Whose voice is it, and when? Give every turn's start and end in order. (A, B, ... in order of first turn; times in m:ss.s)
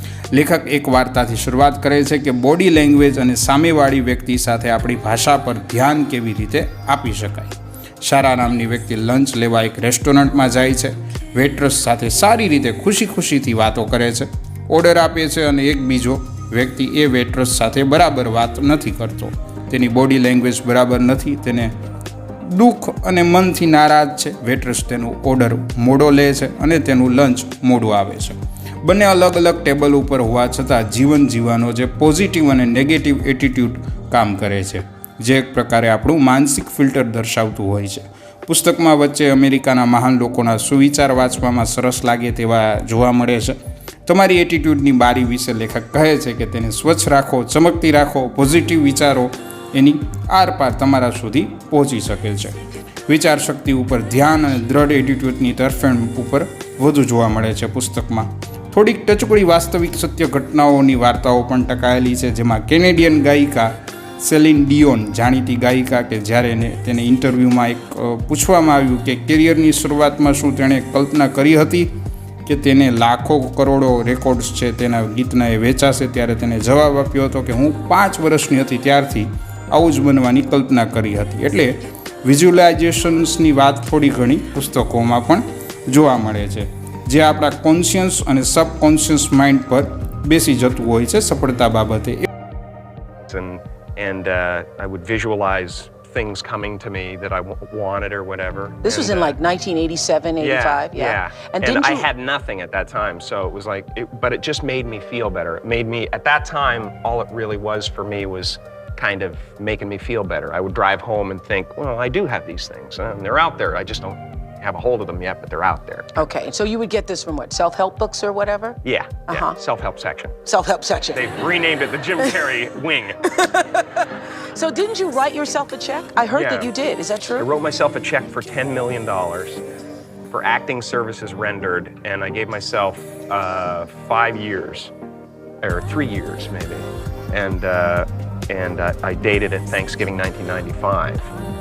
0:00.3-0:21.7 A
0:22.4-0:52.6 A
0:53.1-1:11.9 A
1:12.4-1:32.2 A
1:33.3-1:39.4 B
1:38.8-1:42.1 C
1:40.4-1:56.2 B
1:56.1-1:59.6 C
1:58.8-2:00.4 B
2:00.4-2:01.2 C
2:01.1-2:03.3 B
2:03.3-2:07.5 C
2:06.3-2:06.7 B
2:07.4-2:09.6 B
2:10.3-2:14.9 B
2:15.6-2:21.3 B